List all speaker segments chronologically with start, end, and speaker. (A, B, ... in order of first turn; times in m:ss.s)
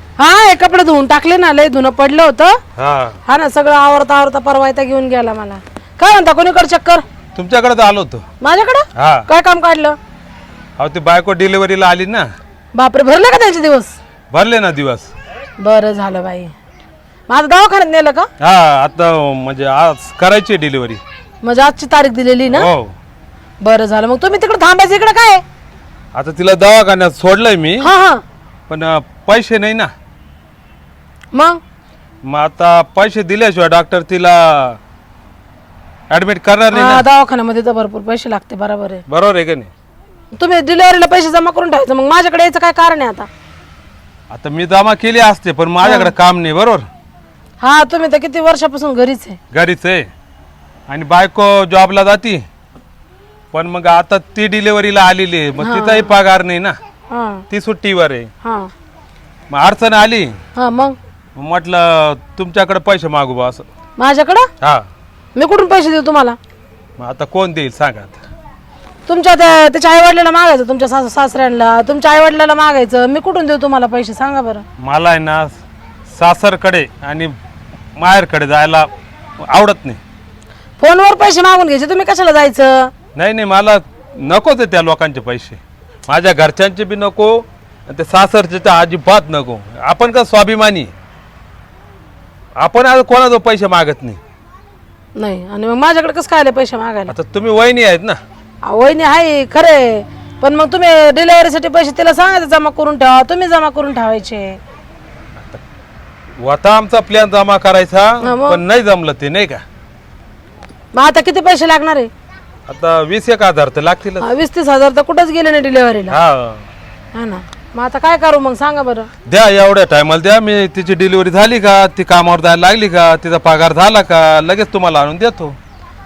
0:00.2-0:02.6 A
0:02.8-0:03.2 B
0:03.3-0:07.0 A
0:07.4-0:08.2 B
0:08.4-0:10.0 A
0:09.0-0:09.3 B
0:10.8-0:12.3 B
0:12.7-0:14.0 A
0:14.3-0:15.1 B
0:15.6-0:16.5 A
0:17.3-0:18.3 A
0:18.4-0:21.0 B
0:21.4-0:22.7 A
0:22.5-0:22.9 B
0:23.6-0:25.4 A
0:26.1-0:27.9 B
0:27.8-0:28.2 A
0:28.7-0:29.9 B
0:31.3-0:31.6 A
0:32.2-0:34.8 B
0:36.1-0:37.0 B
0:36.7-0:39.0 A
0:39.1-0:39.7 B
0:40.4-0:43.3 A
0:44.3-0:46.9 B
0:45.8-0:46.1 A
0:47.6-0:49.4 A
0:49.5-0:50.1 B
0:50.9-0:52.4 B
0:53.5-0:56.8 B
0:55.6-0:56.1 A
0:57.1-0:57.4 A
0:57.5-0:58.3 B
0:58.4-0:58.7 A
0:59.5-1:00.4 B
1:00.6-1:01.0 A
1:01.4-1:03.6 B
1:04.0-1:04.5 A
1:05.4-1:06.4 A
1:07.0-1:08.2 B
1:09.1-1:14.6 A
1:14.8-1:17.4 B
1:18.0-1:18.9 B
1:19.4-1:20.0 B
1:20.8-1:22.9 A
1:23.2-1:30.9 B
1:32.6-1:34.2 B
1:35.2-1:37.1 A
1:37.1-1:38.2 B
1:38.6-1:44.6 A
1:46.4-1:49.6 B
1:48.2-1:48.6 A
1:50.9-1:52.1 A
1:52.7-1:54.3 B
1:54.2-1:56.2 A
1:56.1-1:56.7 B
1:57.1-1:59.1 A
1:59.3-2:05.6 B